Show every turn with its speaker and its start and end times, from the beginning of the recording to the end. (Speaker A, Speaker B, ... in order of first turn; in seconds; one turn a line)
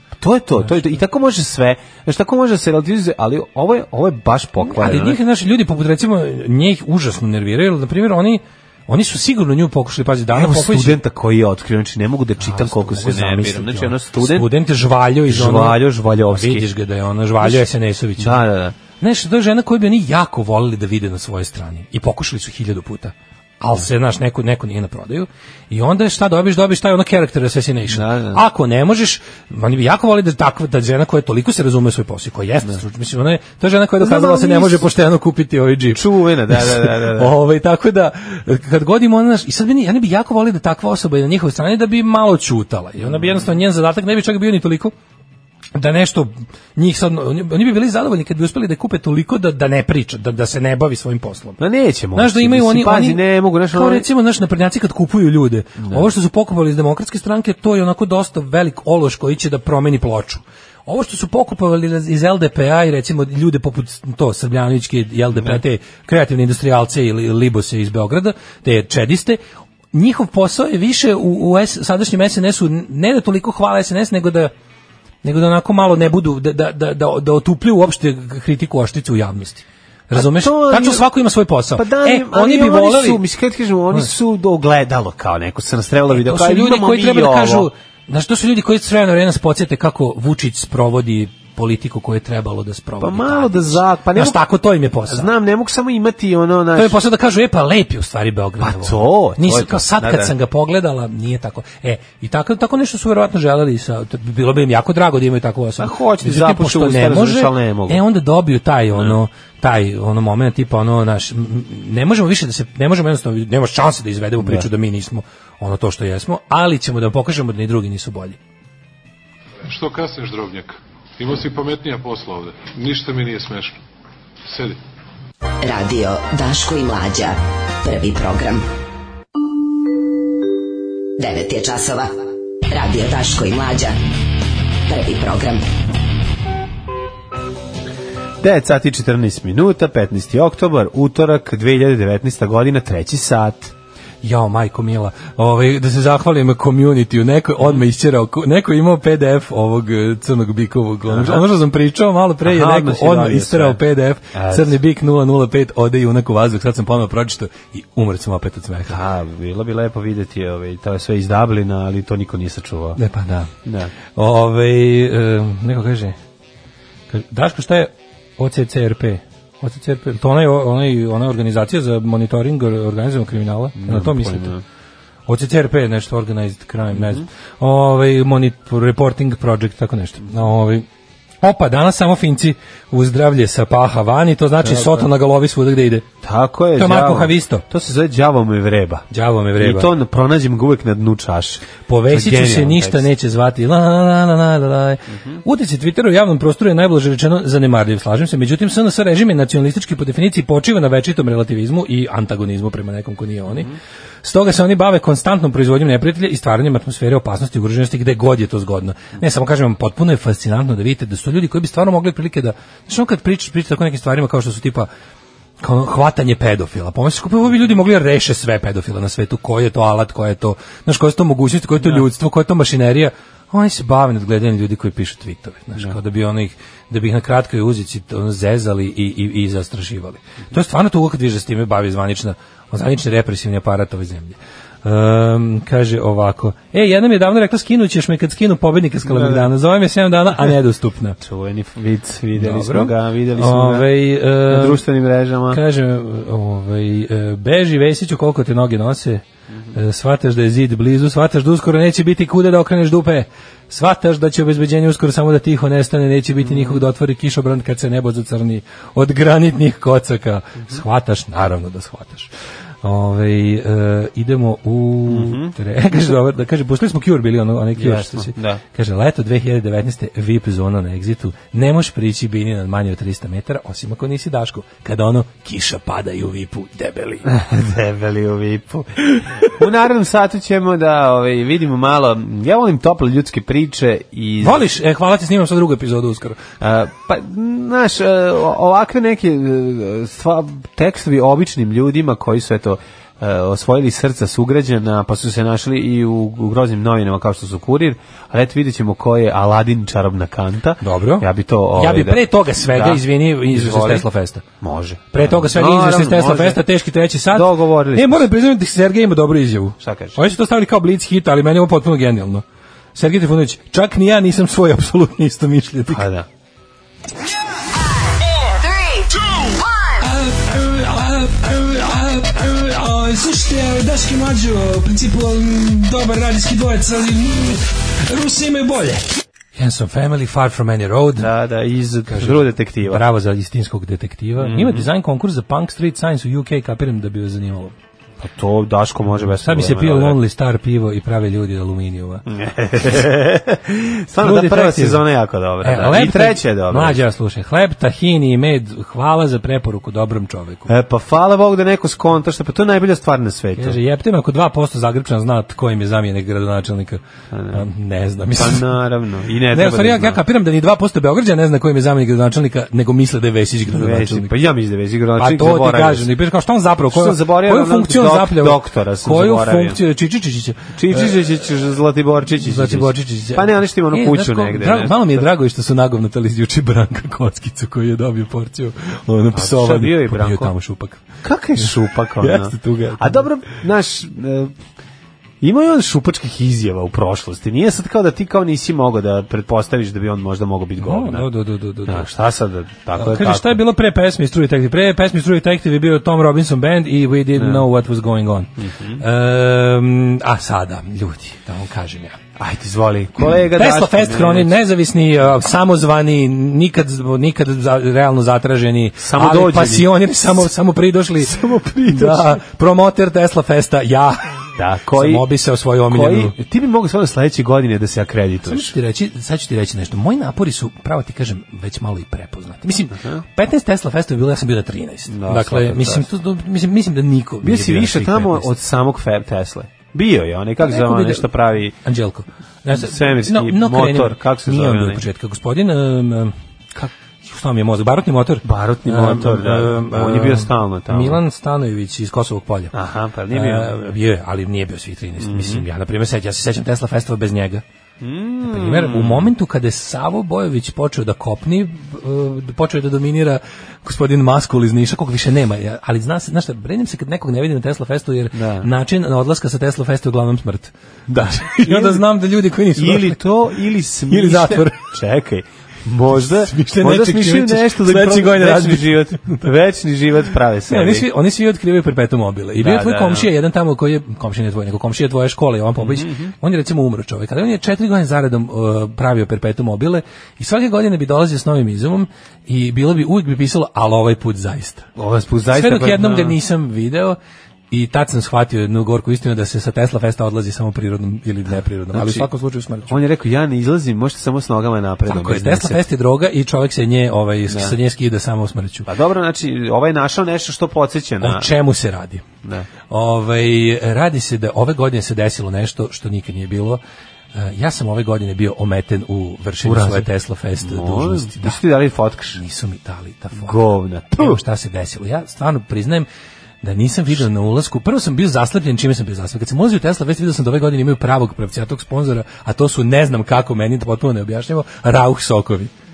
Speaker A: 0.2-5.2
Speaker B: 0.6-0.8
Speaker B: 4.7-11.0
Speaker A: 10.3-14.5
Speaker B: 12.4-44.9
Speaker A: 15.3-16.7
Speaker A: 17.4-17.6
Speaker A: 18.2-18.8
Speaker A: 27.9-28.4
Speaker A: 34.0-34.9
Speaker A: 35.9-37.3
Speaker A: 43.0-43.4
Speaker B: 45.7-51.6
Speaker A: 51.6-54.1
Speaker B: 52.1-69.4
Speaker A: 55.8-56.0
Speaker B: 69.9-74.5
Speaker B: 75.2-83.2
Speaker A: 80.1-81.1
Speaker A: 81.8-87.7
Speaker B: 86.1-95.3
Speaker A: 93.0-94.4
Speaker A: 95.1-97.0
Speaker B: 96.7-118.4
Speaker A: 98.6-100.3
Speaker A: 105.8-108.0
Speaker A: 114.4-114.7
Speaker C: 119.6-123.8
Speaker C: 124.4-124.8
Speaker D: 125.6-128.6
Speaker D: 131.2-132.1
Speaker D: 132.7-133.9
Speaker D: 134.9-135.6
Speaker A: 138.4-143.7
Speaker B: 144.2-159.0
Speaker A: 151.1-151.4
Speaker A: 152.4-153.8
Speaker A: 154.3-154.8
Speaker A: 158.9-163.0
Speaker B: 163.0-166.2
Speaker A: 163.6-163.9
Speaker B: 167.1-174.5
Speaker A: 173.8-174.6
Speaker B: 175.3-180.8
Speaker A: 177.0-177.2
Speaker B: 181.4-186.1
Speaker A: 184.6-185.1
Speaker A: 186.2-189.1
Speaker B: 186.8-187.6
Speaker B: 189.1-189.9
Speaker A: 189.6-193.1
Speaker B: 191.8-203.7
Speaker A: 195.1-195.4
Speaker A: 203.5-203.8
Speaker B: 204.2-214.9
Speaker B: 215.6-241.2
Speaker A: 239.0-239.5
Speaker A: 241.2-245.6
Speaker B: 242.4-244.8
Speaker B: 245.5-262.3
Speaker A: 256.4-256.8
Speaker B: 262.8-277.2
Speaker A: 265.1-265.5
Speaker A: 267.8-268.6
Speaker A: 277.2-284.6
Speaker B: 284.4-286.4
Speaker A: 286.6-304.1
Speaker B: 300.8-304.4
Speaker A: 304.6-306.6
Speaker B: 305.1-312.4
Speaker A: 307.3-308.3
Speaker A: 309.8-310.1
Speaker B: 312.9-316.1
Speaker A: 315.9-316.3
Speaker B: 320.0-331.3
Speaker A: 331.2-333.0
Speaker B: 332.1-337.7
Speaker A: 334.4-334.9
Speaker A: 338.2-340.2
Speaker B: 339.3-342.2
Speaker A: 342.2-347.0
Speaker B: 344.2-345.0
Speaker B: 345.6-350.7
Speaker A: 350.7-353.8
Speaker B: 353.6-357.0
Speaker A: 357.3-357.6
Speaker B: 357.5-358.7
Speaker A: 358.3-360.2
Speaker B: 359.5-364.3
Speaker A: 363.7-366.1
Speaker B: 365.2-371.2
Speaker A: 366.9-369.8
Speaker A: 370.8-375.3
Speaker B: 372.4-381.0
Speaker A: 379.3-380.5
Speaker A: 381.2-384.5
Speaker B: 382.2-383.3
Speaker A: 385.4-391.3
Speaker B: 390.8-392.1
Speaker A: 391.9-393.6
Speaker B: 392.9-402.2
Speaker A: 397.3-397.6
Speaker A: 398.6-399.0
Speaker A: 402.4-404.6
Speaker B: 403.5-411.4
Speaker A: 409.0-410.4
Speaker A: 411.2-412.4
Speaker B: 411.9-416.3
Speaker A: 414.5-415.2
Speaker A: 415.9-418.7
Speaker B: 418.4-428.5
Speaker A: 425.1-426.1
Speaker A: 427.4-431.7
Speaker B: 430.6-442.7
Speaker A: 432.8-435.0
Speaker A: 438.4-441.2
Speaker A: 442.7-443.7
Speaker B: 443.3-447.6
Speaker A: 445.2-445.6
Speaker A: 448.0-449.3
Speaker B: 448.4-463.2
Speaker A: 458.3-458.7
Speaker A: 461.1-462.1
Speaker A: 462.7-471.1
Speaker B: 464.1-464.9
Speaker B: 466.1-469.5
Speaker B: 470.7-484.9
Speaker A: 472.6-473.3
Speaker A: 475.8-476.3
Speaker A: 484.9-486.4
Speaker B: 485.5-487.2
Speaker B: 487.7-493.0
Speaker A: 491.9-492.3
Speaker A: 492.9-495.8
Speaker B: 495.1-498.9
Speaker A: 497.5-497.8
Speaker A: 498.9-501.5
Speaker B: 501.2-502.2
Speaker B: 502.9-506.8
Speaker B: 507.3-511.6
Speaker A: 509.6-512.4
Speaker B: 512.3-513.5
Speaker A: 513.3-514.4
Speaker B: 514.1-516.1
Speaker B: 516.6-525.7